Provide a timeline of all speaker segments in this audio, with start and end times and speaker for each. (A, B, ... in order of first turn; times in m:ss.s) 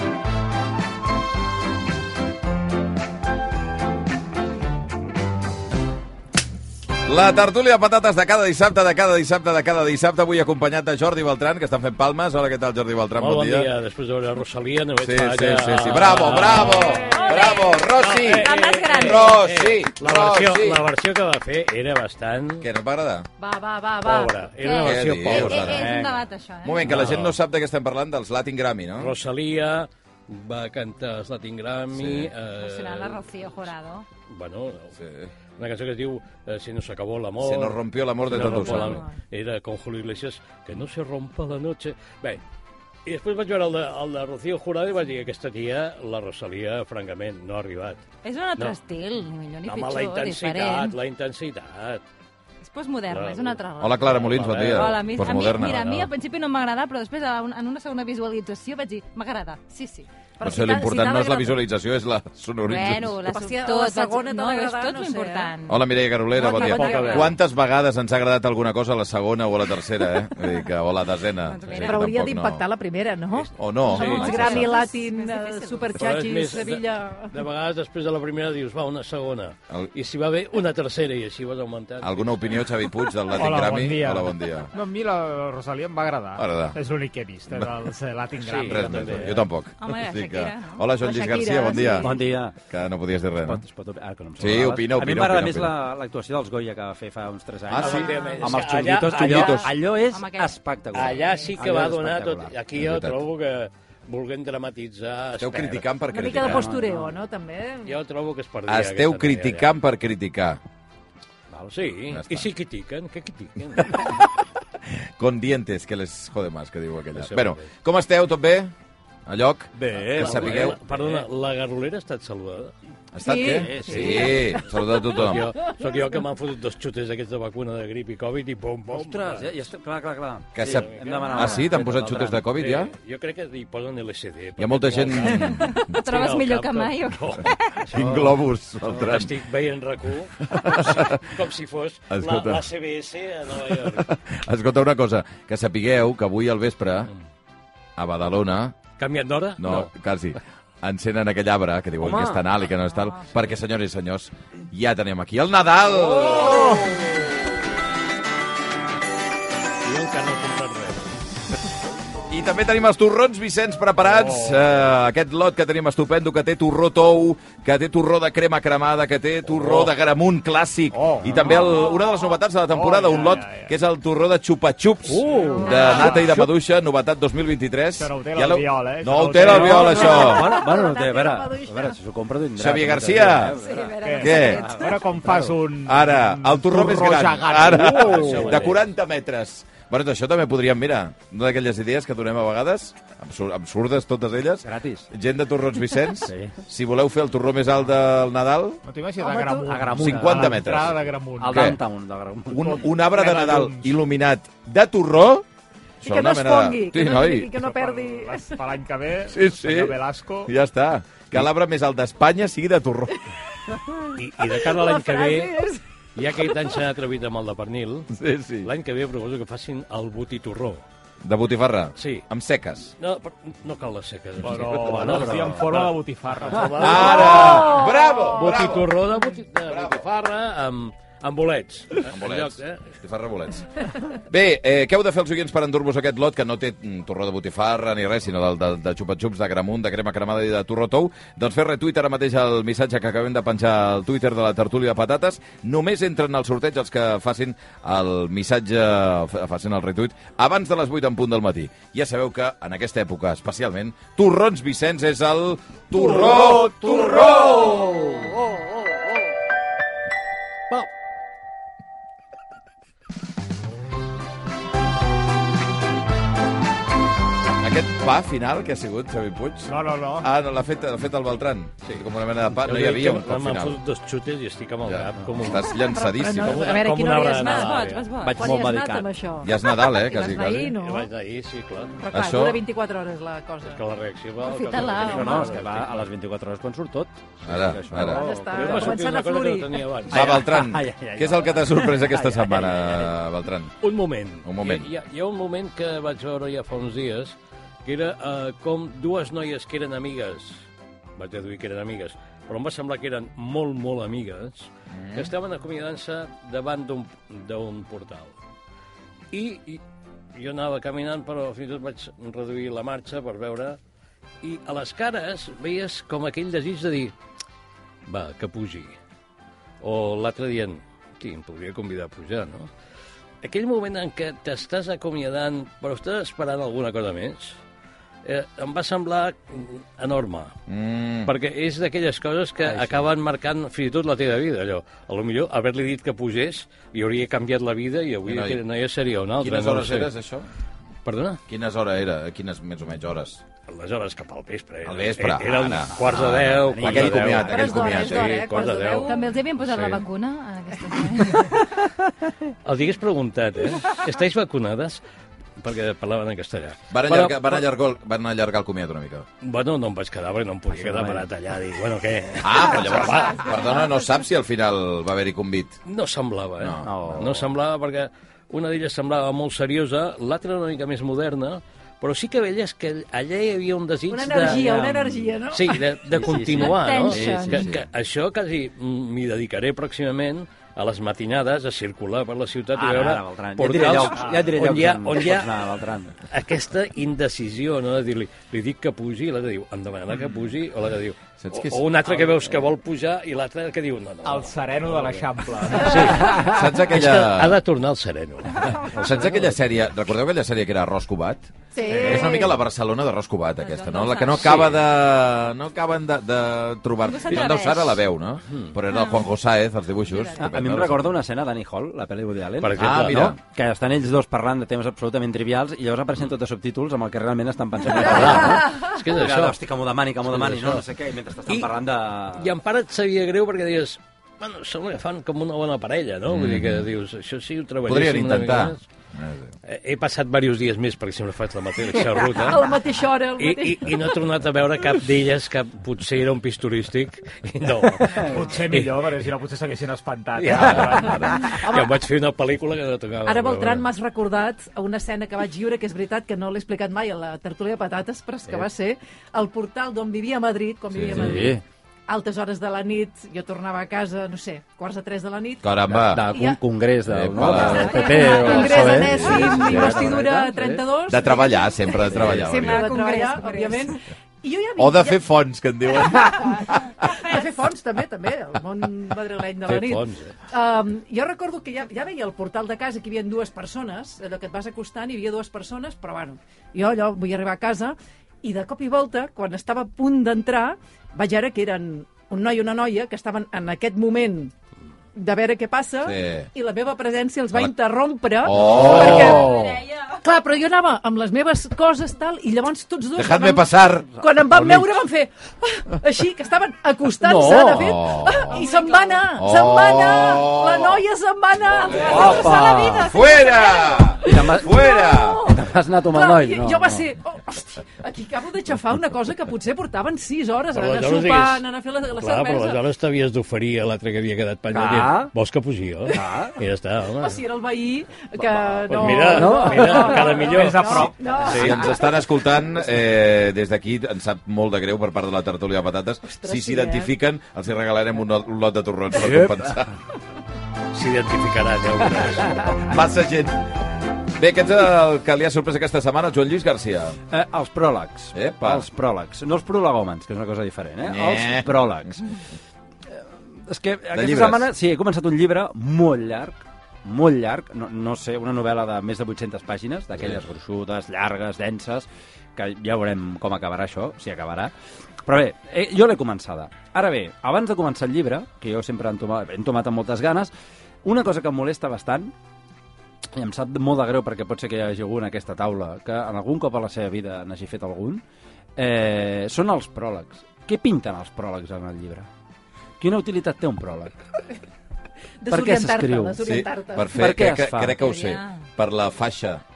0:07.0-0:13.7 A
0:13.2-0:22.7 B
0:15.0-0:20.9 A
0:16.7-0:19.4 C
0:22.6-0:23.3 A
0:23.4-0:24.2 D
0:24.0-0:25.7 B
0:24.1-0:27.0 C
0:24.8-0:25.8 A
0:25.3-0:26.2 E
0:26.6-0:29.1 A
0:26.8-0:27.4 B
0:29.0-0:33.2 B
0:31.9-0:32.3 A
0:32.5-0:34.0 C
0:34.3-0:34.9 B
0:35.0-0:35.3 A
0:35.6-0:42.4 B
0:37.4-0:39.0 A
0:38.4-0:39.0 C
0:43.0-0:48.0 B
0:48.2-0:50.9 C
0:49.6-0:52.0 B
0:52.6-1:01.5 C
0:53.1-0:56.1 B
0:53.8-0:55.8 A
1:00.4-1:03.2 A
1:02.6-1:05.8 C
1:03.2-1:05.5 D
1:05.7-1:12.6 A
1:06.4-1:07.3 C
1:06.4-1:07.3 D
1:11.5-1:12.0 C
1:11.8-1:17.3 D
1:13.4-1:14.4 B
1:13.6-1:14.7 A
1:13.9-1:16.0 C
1:16.0-1:22.6 B
1:22.0-1:24.7 A
1:23.3-1:29.2 F
1:26.4-1:26.8 A
1:28.4-1:29.4 B
1:28.6-1:33.6 A
1:29.0-1:29.3 E
1:29.8-1:30.8 C
1:31.0-1:32.1 D
1:32.0-1:32.6 E
1:33.4-1:42.5 E
1:34.4-1:35.7 A
1:37.7-1:38.3 A
1:37.8-1:39.7 B
1:39.1-1:39.7 A
1:40.0-1:40.6 C
1:40.9-1:45.8 B
1:41.1-1:41.5 C
1:42.7-1:43.2 A
1:45.4-1:46.6 A
1:46.1-1:48.0 D
1:46.3-1:47.1 E
1:47.8-1:49.7 B
1:48.7-1:50.6 A
1:51.5-1:51.8 E
1:51.7-1:54.1 B
1:52.1-1:52.5 A
1:55.2-1:58.7 A
1:57.2-1:57.6 B
1:59.2-2:00.8 A
1:59.8-2:01.2 E
2:00.1-2:02.7 B
2:03.1-2:05.5 A
2:03.2-2:05.0 D
2:03.4-2:04.5 E
2:05.0-2:09.5 B
2:08.9-2:12.5 E
2:10.5-2:12.9 A
2:10.6-2:11.8 B
2:12.5-2:17.5 B
2:14.6-2:15.8 A
2:15.4-2:17.8 C
2:17.9-2:18.3 E
2:17.9-2:19.3 A
2:18.8-2:24.1 B
2:20.5-2:21.2 A
2:22.1-2:22.6 A
2:23.7-2:27.1 A
2:28.0-2:28.8 A
2:29.0-2:29.9 B
2:29.6-2:36.9 A
2:32.0-2:32.4 E
2:36.4-2:36.9 F
2:39.8-2:41.4 B
2:42.3-3:00.6 A
2:44.1-2:44.6 F
2:49.6-2:49.9 B
2:50.9-2:51.9 F
2:52.7-2:53.7 F
2:55.1-2:56.4 E
2:55.2-2:56.3 F
2:58.0-3:00.2 F
2:59.4-3:05.6 E
2:59.7-3:01.9 D
3:02.6-3:03.6 A
3:03.6-3:05.2 C
3:04.0-3:08.6 F
3:04.2-3:04.7 A
3:05.8-3:18.8 A
3:07.8-3:08.8 B
3:14.6-3:15.0 E
3:16.2-3:16.6 E
3:18.8-3:21.7 F
3:19.2-3:19.8 D
3:19.7-3:20.8 E
3:20.0-3:21.0 A
3:21.4-3:22.8 E
3:21.5-3:21.8 A
3:22.5-3:25.4 A
3:22.6-3:24.0 F
3:26.0-3:27.5 A
3:26.0-3:28.6 D
3:27.6-3:30.5 F
3:29.3-3:33.2 A
3:34.1-3:35.5 B
3:34.4-3:35.8 D
3:36.2-3:40.8 B
3:38.1-3:38.7 A
3:41.2-3:42.9 A
3:42.0-3:42.2 B
3:43.0-3:52.9 B
3:44.4-3:47.7 F
3:44.9-3:45.5 E
3:46.7-3:49.0 A
3:47.2-3:48.2 D
3:49.6-3:50.0 A
3:52.1-4:17.8 A
4:27.6-4:33.8 A
4:29.7-4:30.3 F
4:32.6-4:35.7 B
4:34.8-4:36.7 A
4:35.8-4:37.8 D
4:36.4-4:38.1 B
4:37.2-4:38.6 C
4:38.2-4:39.1 E
4:38.3-4:41.1 D
4:39.4-4:40.7 A
4:40.3-4:42.0 B
4:42.0-4:43.8 D
4:42.1-4:42.6 A
4:43.7-4:46.0 B
4:44.4-4:45.6 C
4:45.0-4:49.0 E
4:47.4-4:48.2 A
4:48.0-4:50.4 B
4:48.1-4:49.8 D
4:50.1-4:53.7 A
4:50.1-4:53.1 E
4:53.8-5:00.6 B
4:54.4-4:54.9 A
5:01.2-5:08.3 B
5:04.9-5:05.3 A
5:09.3-5:09.8 B
5:10.4-5:13.8 B
5:14.4-5:17.1 B
5:18.0-5:19.0 B
5:19.8-5:22.7 B
5:23.4-5:27.6 B
5:28.2-5:30.5 B
5:30.7-5:31.3 A
5:31.2-5:40.1 B
5:38.2-5:38.6 A
5:39.4-5:40.5 A
5:41.0-5:41.4 B
5:41.5-5:43.4 A
5:43.7-5:50.0 B
5:44.8-5:48.4 A
5:46.6-5:47.8 E
5:47.4-5:49.3 D
5:49.0-5:51.7 C
5:52.6-5:55.0 B
5:55.6-5:57.6 B
5:56.9-5:59.2 A
5:59.4-6:03.5 B
6:00.7-6:01.2 E
6:02.4-6:05.8 A
6:05.8-6:14.6 B
6:06.6-6:06.9 A
6:06.8-6:07.4 E
6:14.1-6:15.8 D
6:14.3-6:15.4 E
6:15.5-6:25.7 B
6:16.1-6:17.7 E
6:16.5-6:17.6 C
6:22.7-6:26.1 E
6:24.2-6:24.5 F
6:26.2-6:39.2 B
6:31.4-6:31.8 A
6:32.0-6:32.7 E
6:34.2-6:36.4 F
6:36.0-6:37.6 A
6:38.8-6:51.1 A
6:41.7-6:42.5 D
6:43.6-6:44.8 C
6:44.4-6:44.8 B
6:47.1-6:48.0 C
6:48.9-6:49.3 C
6:50.4-7:02.5 E
6:52.6-6:53.4 B
6:52.8-6:53.4 A
6:57.9-6:59.6 B
7:00.2-7:00.8 B
7:02.3-7:08.8 B
7:06.3-7:06.8 A
7:07.8-7:09.5 A
7:09.6-7:12.7 B
7:12.3-7:14.0 D
7:13.4-7:19.0 B
7:18.1-7:21.3 F
7:20.4-7:23.8 B
7:20.6-7:21.4 A
7:21.5-7:22.0 D
7:23.2-7:31.5 D
7:30.9-7:31.5 A
7:31.1-7:31.6 E
7:32.1-7:35.7 D
7:35.6-7:36.3 A
7:35.9-7:40.8 E
7:36.3-7:36.6 D
7:37.0-7:38.1 A
7:37.4-7:39.3 C
7:37.7-7:45.2 D
7:39.1-7:39.8 A
7:41.1-7:42.9 A
7:42.1-7:42.5 E
7:42.5-7:44.0 C
7:44.8-7:46.6 A
7:46.0-8:04.5 D
7:47.1-7:47.4 C
7:49.7-7:50.3 B
8:05.1-8:09.6 D
8:06.0-8:06.5 A
8:08.4-8:09.5 A
8:08.6-8:09.8 E
8:09.4-8:10.2 C
8:10.2-8:22.7 D
8:13.2-8:14.8 A
8:17.2-8:17.9 E
8:17.7-8:18.6 A
8:18.5-8:19.4 C
8:19.4-8:21.0 A
8:21.8-8:25.4 A
8:21.9-8:24.2 C
8:22.0-8:23.1 E
8:24.2-8:32.8 D
8:24.2-8:24.8 E
8:25.5-8:27.0 E
8:30.7-8:31.6 B
8:32.2-8:37.4 B
8:34.7-8:35.3 E
8:36.1-8:36.5 E
8:37.2-8:42.1 D
8:38.4-8:40.3 E
8:38.9-8:41.1 B
8:39.9-8:41.4 F
8:41.4-8:49.9 A
8:46.2-8:47.1 D
8:49.1-8:49.7 E
8:50.9-8:52.7 B
8:52.8-8:53.7 A
8:54.3-8:57.2 A
8:57.3-9:02.2 E
8:58.3-8:58.9 A
9:01.0-9:02.2 A
9:03.1-9:14.7 E
9:04.1-9:04.7 A
9:10.2-9:10.4 A
9:15.2-9:20.5 E
9:21.0-9:22.3 E
9:23.3-9:28.2 E
9:28.8-9:32.3 E
9:33.0-9:34.1 E
9:35.4-9:37.2 D
9:35.5-9:36.6 E
9:36.4-9:39.6 A
9:37.1-9:38.1 E
9:38.0-9:38.5 C